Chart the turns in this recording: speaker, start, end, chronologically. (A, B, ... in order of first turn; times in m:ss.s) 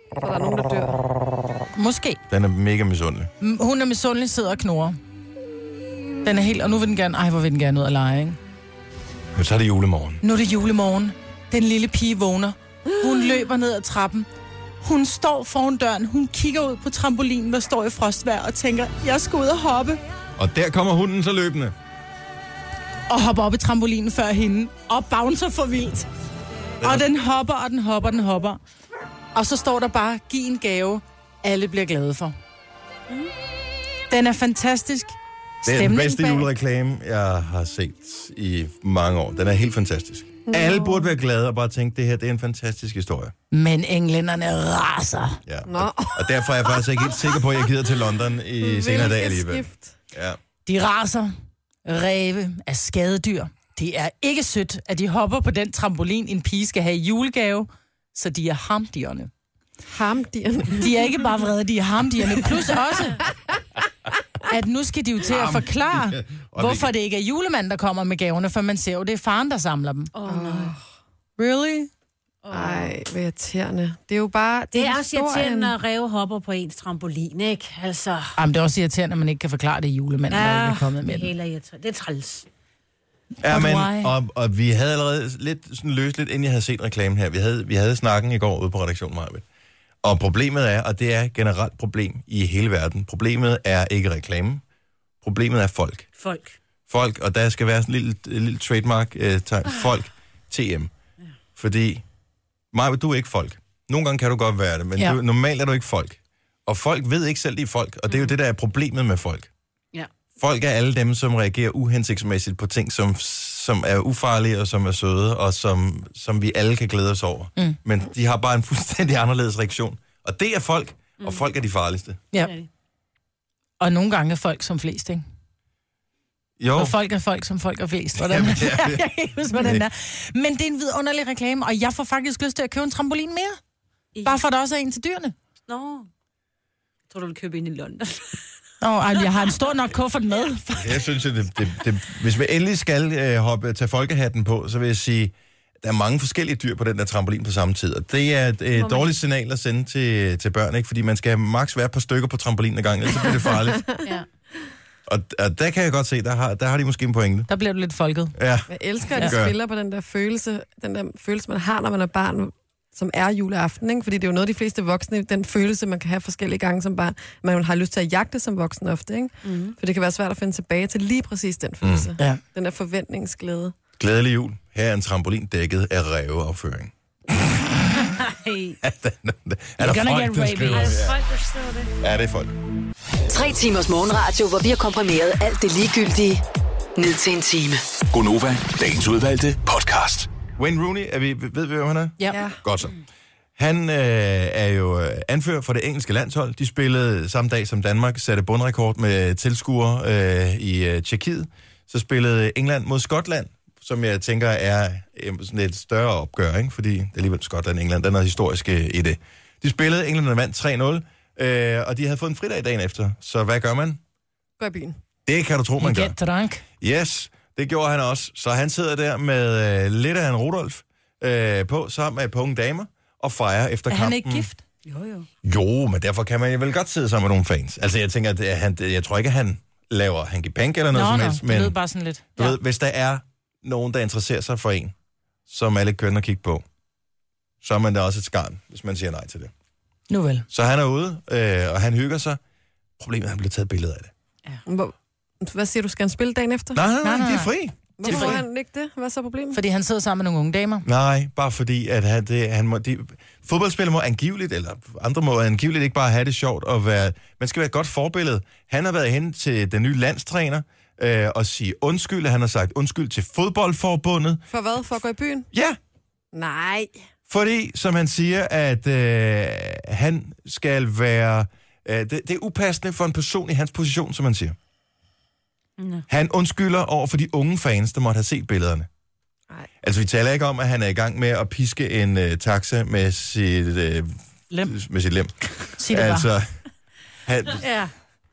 0:00.2-0:01.0 A
0:01.8-0:02.2 B
0:02.3-0:03.3 C
0:03.4-0:05.0 B
0:06.2-0:08.4 B
0:09.4-0:10.2 C
0:10.2-0:14.3 B
0:12.9-0:13.3 A
0:14.8-0:20.0 B
0:20.4-0:21.7 C
0:23.1-0:26.1 B
0:26.8-0:27.1 C
0:26.8-0:28.6 B
0:29.4-0:32.4 B
0:34.1-0:35.2 B
0:35.6-0:43.3 C
0:35.7-0:36.5 B
0:40.5-0:41.1 A
0:43.5-0:45.4 B
0:45.5-0:50.4 C
0:45.7-0:47.5 A
0:48.6-0:50.0 A
0:50.7-0:51.3 B
0:51.9-0:59.3 B
0:59.9-1:01.1 A
1:00.8-1:03.2 B
1:04.5-1:10.1 B
1:05.2-1:06.9 C
1:10.1-1:10.8 D
1:10.2-1:10.8 A
1:11.4-1:11.9 B
1:12.4-1:13.0 D
1:12.5-1:15.7 A
1:14.7-1:18.4 D
1:18.4-1:21.3 B
1:20.3-1:22.5 D
1:23.4-1:29.4 C
1:23.4-1:24.1 B
1:30.0-1:34.6 C
1:35.2-1:36.1 C
1:36.2-1:36.6 D
1:36.9-1:40.9 C
1:41.6-1:42.0 C
1:42.7-1:49.5 C
1:48.1-1:48.3 D
1:50.4-2:02.2 C
2:02.4-2:02.7 D
2:03.8-2:05.2 B
2:06.6-2:07.0 C
2:06.8-2:13.6 B
2:08.2-2:09.8 C
2:14.1-2:14.4 D
2:14.2-2:15.3 B
2:15.7-2:16.1 D
2:17.1-2:18.4 D
2:18.8-2:21.0 B
2:19.2-2:19.6 D
2:20.8-2:33.9 C
2:28.7-2:29.1 D
2:33.5-2:34.0 A
2:35.1-2:37.5 C
2:37.5-2:38.3 B
2:38.4-2:39.6 C
2:38.7-2:53.7 A
2:49.4-2:49.8 D
2:51.8-2:52.1 C
2:54.0-2:57.6 C
2:57.9-2:58.8 D
2:58.8-3:01.2 C
2:59.8-3:01.0 B
3:00.7-3:01.9 D
3:02.0-3:02.5 C
3:03.3-3:06.4 E
3:07.0-3:07.8 E
3:08.1-3:10.3 F
3:10.6-3:13.0 C
3:12.3-3:12.6 A
3:13.6-3:34.0 C
3:34.6-3:35.0 A
3:35.3-3:36.2 C
3:35.8-3:36.6 B
3:36.8-3:44.5 C
3:43.9-3:44.6 B
3:44.9-3:45.3 D
3:45.4-3:51.8 C
3:50.9-3:52.6 B
3:52.4-3:54.9 C
3:55.5-3:56.6 C
3:57.6-3:59.5 C
4:00.1-4:00.5 B
4:00.5-4:02.4 C
4:03.0-4:04.1 C
4:04.7-4:06.8 A
4:06.7-4:08.4 C
4:07.0-4:08.4 B
4:08.0-4:09.6 A
4:09.5-4:10.8 B
4:10.8-4:24.4 C
4:24.5-4:25.5 A
4:25.5-4:25.8 C
4:26.3-4:26.9 A
4:27.3-4:34.6 C
4:36.1-4:38.9 C
4:39.8-4:46.5 C
4:45.7-4:46.3 B
4:47.3-4:47.7 C
4:47.6-4:47.9 D